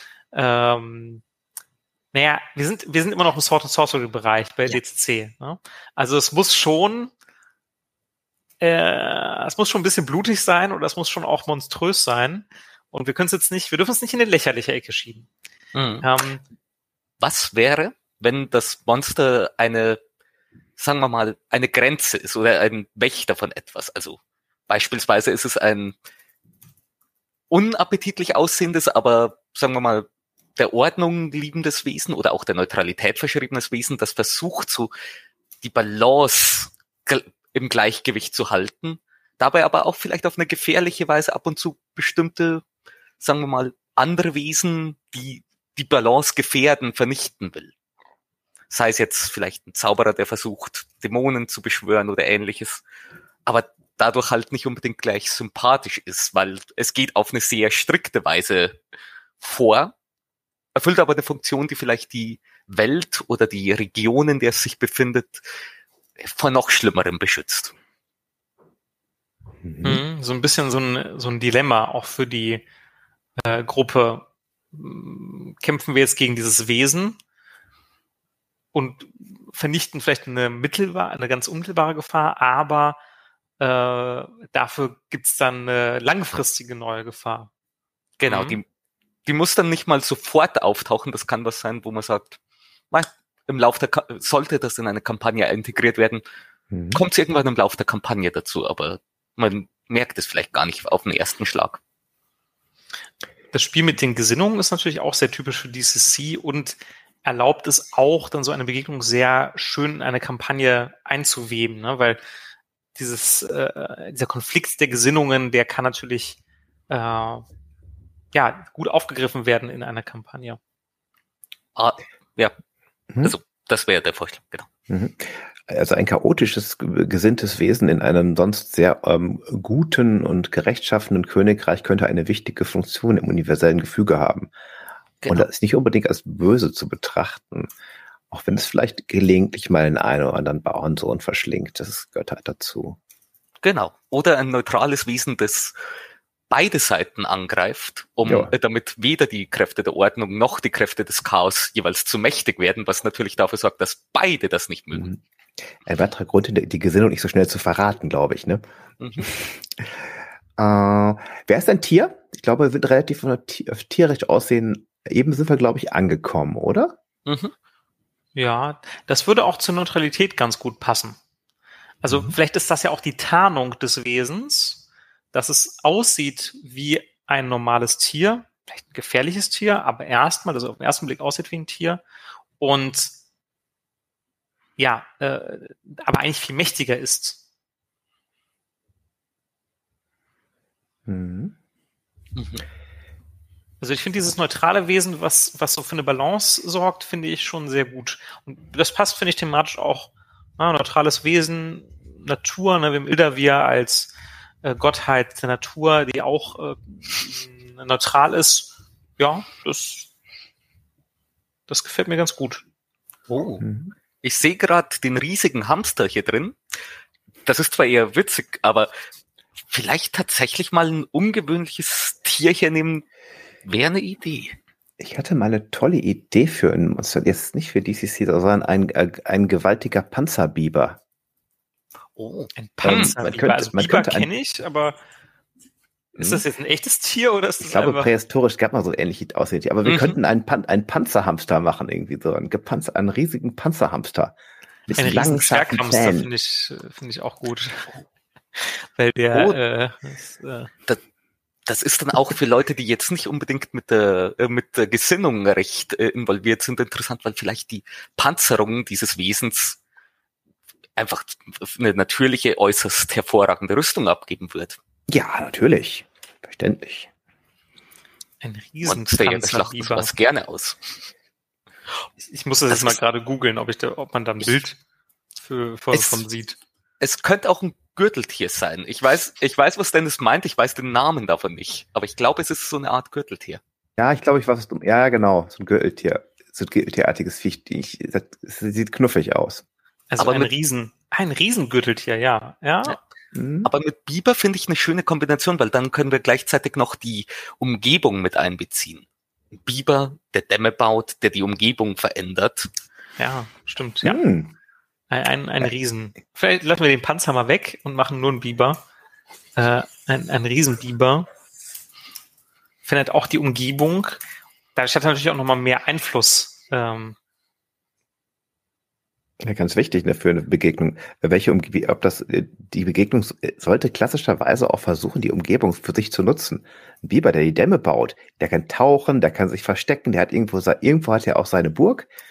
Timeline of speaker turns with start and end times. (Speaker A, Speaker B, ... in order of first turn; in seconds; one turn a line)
Speaker A: 0.3-1.2
Speaker A: 2.1-7.1
Speaker A: 8.6-15.3
Speaker B: 15.8-16.1
Speaker A: 16.0-16.4
Speaker B: 17.2-20.0
Speaker B: 20.8-25.9
Speaker B: 27.5-34.9
Speaker B: 35.6-42.6
Speaker B: 43.2-47.7
Speaker B: 48.7-52.8
Speaker B: 53.5-58.8
Speaker B: 59.4-60.0
Speaker B: 60.8-65.4
Speaker B: 66.2-67.7
Speaker C: 69.6-70.0
Speaker A: 69.8-72.7
Speaker A: 73.4-77.2
Speaker A: 78.7-83.0
Speaker A: 83.6-87.5
Speaker B: 88.2-88.6
Speaker A: 88.2-88.6
Speaker B: 89.3-92.4
Speaker B: 92.9-96.2
Speaker C: 96.7-97.0
Speaker B: 96.9-101.8
Speaker A: 103.5-112.2
Speaker A: 113.0-116.4
Speaker A: 116.9-117.5
Speaker A: 118.3-120.6
Speaker B: 121.8-122.5
Speaker B: 123.2-124.7
Speaker C: 124.9-134.5
Speaker C: 135.3-137.7
Speaker C: 138.3-143.0
Speaker B: 143.6-145.7
Speaker B: 146.5-155.1
Speaker C: 148.2-148.5
Speaker C: 154.9-155.2
Speaker C: 155.7-158.6
Speaker B: 159.0-159.3
Speaker C: 159.2-160.0
Speaker C: 160.6-167.0
Speaker B: 167.3-167.5
Speaker A: 168.4-171.2
Speaker A: 172.0-182.0
Speaker C: 172.1-172.3
Speaker A: 182.6-183.1
Speaker A: 184.8-187.4
Speaker C: 191.1-191.6
Speaker B: 192.3-192.7
Speaker A: 193.8-204.1
Speaker A: 204.6-210.1
Speaker A: 211.7-212.7
Speaker B: 213.3-213.6
Speaker C: 213.6-213.9
Speaker B: 214.2-216.6
Speaker B: 217.4-218.9
Speaker B: 219.7-223.1
Speaker B: 223.7-224.6
Speaker C: 225.0-231.0
Speaker B: 232.2-233.1
Speaker A: 232.6-235.0
Speaker C: 232.8-234.3
Speaker A: 236.2-238.1
Speaker C: 236.2-236.4
Speaker C: 237.6-244.4
Speaker B: 239.8-240.2
Speaker C: 244.9-246.3
Speaker A: 245.0-248.0
Speaker A: 248.6-250.7
Speaker B: 251.7-259.8
Speaker B: 261.0-264.8
Speaker C: 265.1-267.1
Speaker A: 268.4-270.1
Speaker B: 268.9-270.9
Speaker A: 272.3-274.8
Speaker B: 272.7-273.0
Speaker A: 275.4-276.6
Speaker B: 275.9-276.2
Speaker B: 277.0-283.6
Speaker C: 284.0-289.6
Speaker A: 290.1-293.0
Speaker B: 290.2-290.5
Speaker C: 293.3-293.7
Speaker B: 293.6-299.1
Speaker B: 299.6-302.7
Speaker A: 303.2-304.2
Speaker C: 304.0-304.6
Speaker A: 305.1-308.8
Speaker A: 309.6-311.3
Speaker A: 312.9-314.2
Speaker A: 314.8-317.2
Speaker C: 319.4-332.1